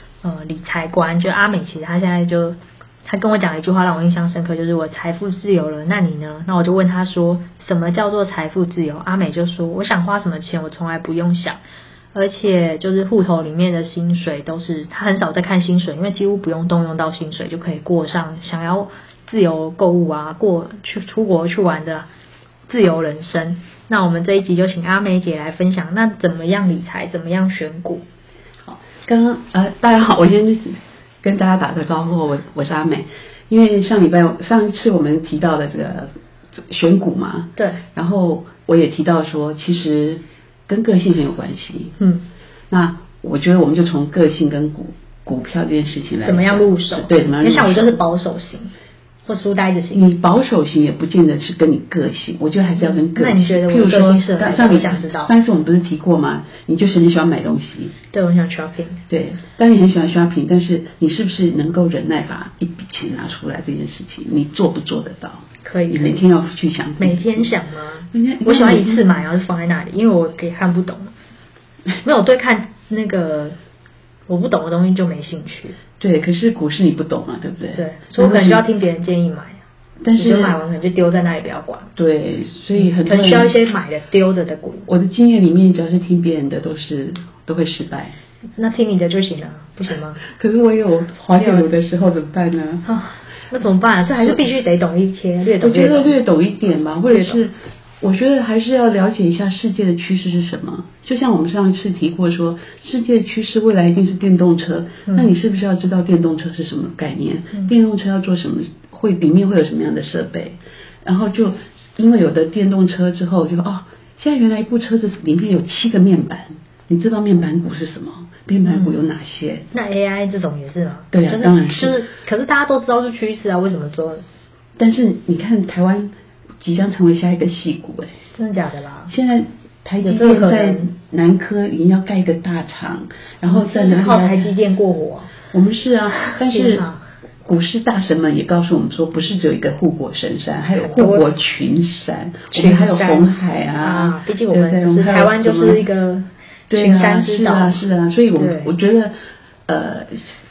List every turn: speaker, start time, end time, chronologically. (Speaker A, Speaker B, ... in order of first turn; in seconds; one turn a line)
Speaker A: 0.2-11.6
Speaker A: 12.1-22.1
Speaker A: 22.7-28.0
Speaker B: 28.6-42.0
Speaker A: 37.6-37.8
Speaker A: 42.0-42.2
Speaker B: 42.7-48.0
Speaker A: 46.2-48.7
Speaker A: 49.3-50.1
Speaker B: 49.9-57.9
Speaker A: 52.8-55.3
Speaker A: 58.1-59.0
Speaker B: 59.1-67.5
Speaker A: 65.6-66.2
Speaker A: 67.0-71.1
Speaker B: 68.1-69.1
Speaker A: 72.0-73.6
Speaker A: 74.3-75.8
Speaker B: 76.0-78.6
Speaker A: 77.8-79.6
Speaker B: 80.0-80.6
Speaker A: 80.2-81.9
Speaker B: 82.0-83.5
Speaker A: 82.8-84.9
Speaker B: 84.9-88.2
Speaker A: 88.6-90.2
Speaker B: 90.3-92.8
Speaker A: 91.4-91.7
Speaker A: 92.9-96.1
Speaker B: 94.2-94.4
Speaker B: 95.6-119.7
Speaker A: 97.1-97.4
Speaker A: 105.1-105.3
Speaker A: 118.7-118.9
Speaker A: 119.7-124.2
Speaker B: 121.1-122.0
Speaker B: 124.8-128.1
Speaker A: 128.4-129.1
Speaker B: 129.1-134.5
Speaker A: 130.0-130.9
Speaker A: 133.5-135.3
Speaker B: 135.5-136.9
Speaker A: 136.2-137.0
Speaker B: 137.4-145.8
Speaker A: 140.8-141.4
Speaker A: 142.5-147.8
Speaker B: 146.7-149.1
Speaker A: 148.3-148.7
Speaker B: 149.7-150.3